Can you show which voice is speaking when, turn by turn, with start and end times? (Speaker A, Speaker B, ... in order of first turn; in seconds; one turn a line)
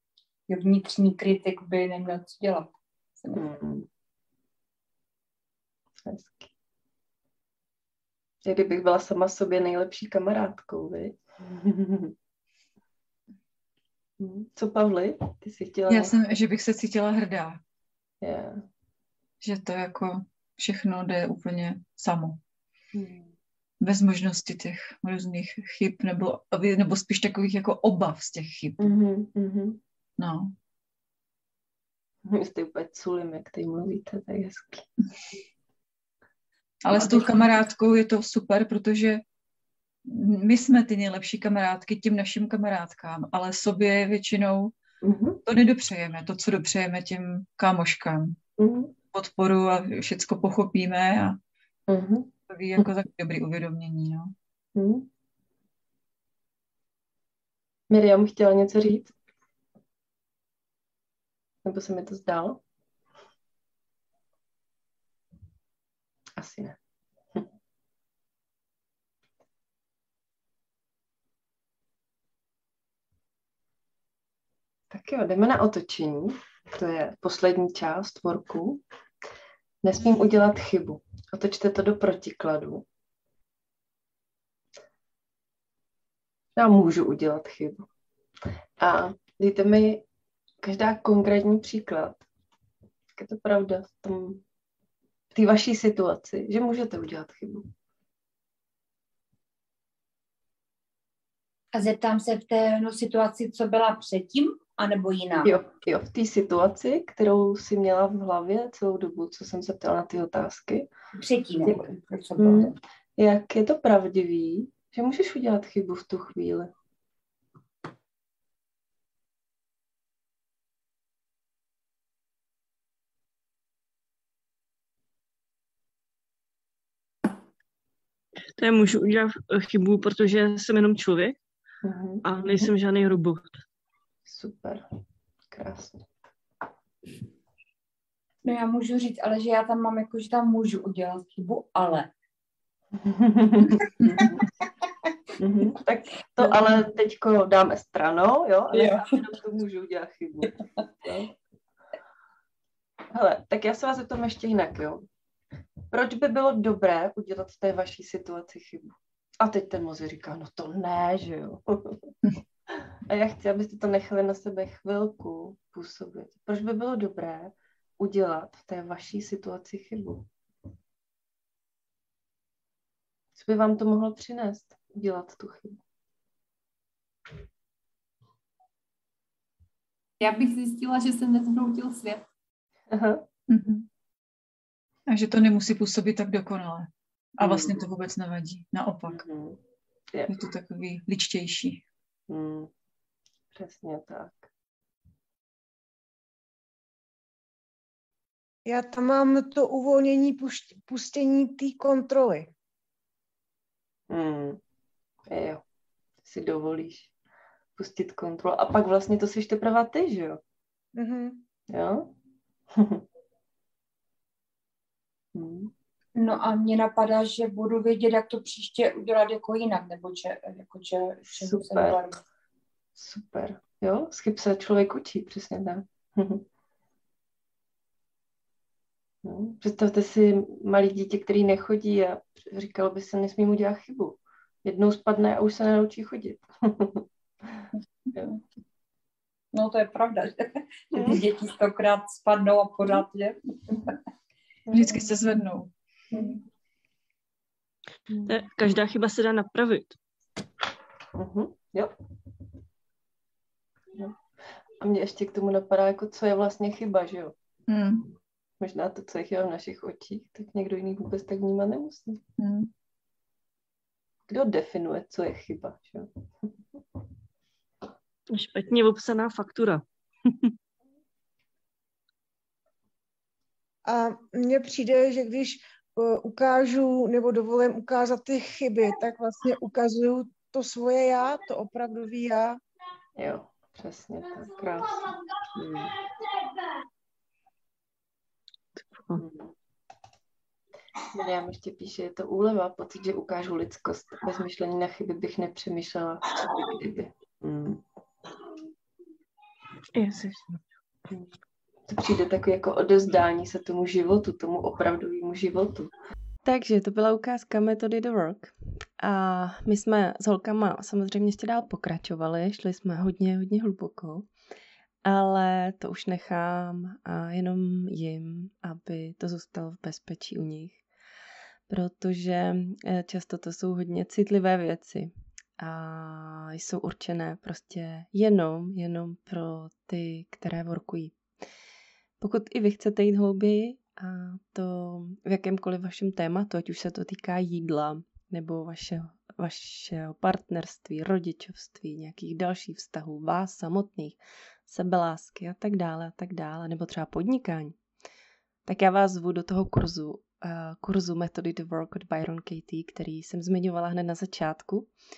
Speaker A: 0.5-3.4
Speaker B: 3.4-3.9
Speaker B: 6.0-6.5
Speaker B: 8.4-12.2
Speaker B: 14.2-16.3
Speaker C: 15.9-17.6
Speaker B: 18.2-18.6
Speaker C: 19.4-22.4
Speaker B: 22.9-23.4
Speaker C: 23.8-28.8
Speaker B: 28.8-29.8
Speaker C: 30.2-30.5
Speaker B: 32.3-34.9
Speaker C: 36.8-39.2
Speaker B: 36.9-37.3
Speaker C: 40.1-44.8
Speaker B: 45.0-45.4
Speaker C: 45.5-48.4
Speaker B: 48.6-48.9
Speaker C: 49.1-51.4
Speaker B: 51.9-52.9
Speaker C: 52.5-54.3
Speaker B: 54.8-55.1
Speaker B: 57.9-59.1
Speaker B: 61.6-62.6
Speaker B: 66.4-66.8
Speaker B: 74.9-78.8
Speaker B: 79.8-82.9
Speaker B: 86.6-87.9
Speaker B: 88.8-90.0
Speaker B: 90.6-92.3
Speaker B: 93.2-94.4
Speaker B: 95.3-97.7
Speaker A: 101.7-105.6
Speaker B: 105.4-110.9
Speaker A: 111.2-112.8
Speaker B: 112.4-116.7
Speaker D: 128.6-131.4
Speaker B: 131.8-132.7
Speaker D: 132.2-133.6
Speaker B: 134.3-134.8
Speaker B: 135.5-136.1
Speaker A: 138.4-142.1
Speaker B: 143.0-144.4
Speaker B: 145.4-151.3
Speaker A: 148.7-149.1
Speaker B: 153.1-155.1
Speaker B: 155.9-162.1
Speaker B: 162.7-170.3
Speaker B: 173.4-175.8
Speaker E: 180.2-182.2
Speaker B: 182.9-183.3
Speaker C: 183.5-183.9
Speaker C: 185.1-189.2
Speaker B: 187.4-187.8
Speaker B: 189.1-189.6
Speaker C: 190.3-191.8
Speaker B: 192.3-192.7
Speaker B: 193.5-194.5
Speaker F: 198.7-202.5
Speaker B: 204.1-204.6
Speaker B: 205.3-205.6
Speaker B: 206.2-207.1
Speaker B: 207.8-210.4
Speaker F: 210.9-211.4
Speaker B: 211.7-212.1
Speaker B: 212.7-213.1
Speaker B: 215.3-215.7
Speaker A: 216.2-222.2
Speaker B: 221.3-222.0
Speaker B: 223.0-226.4
Speaker B: 229.2-237.1
Speaker A: 239.5-243.4
Speaker B: 240.9-241.2
Speaker B: 244.7-245.1
Speaker C: 244.7-245.7
Speaker D: 248.3-250.0
Speaker B: 251.1-251.9
Speaker B: 254.8-257.4
Speaker C: 257.7-258.1
Speaker B: 258.6-262.2
Speaker C: 262.4-262.7
Speaker B: 264.3-266.5
Speaker D: 268.3-269.8
Speaker F: 273.9-282.6
Speaker B: 283.2-286.0
Speaker D: 288.9-289.2
Speaker B: 289.2-289.5
Speaker B: 291.1-297.8
Speaker D: 299.9-300.6
Speaker B: 301.9-305.9
Speaker G: 306.4-314.3
Speaker G: 315.1-320.8
Speaker G: 321.7-331.2
Speaker G: 332.2-347.8
Speaker G: 348.7-354.9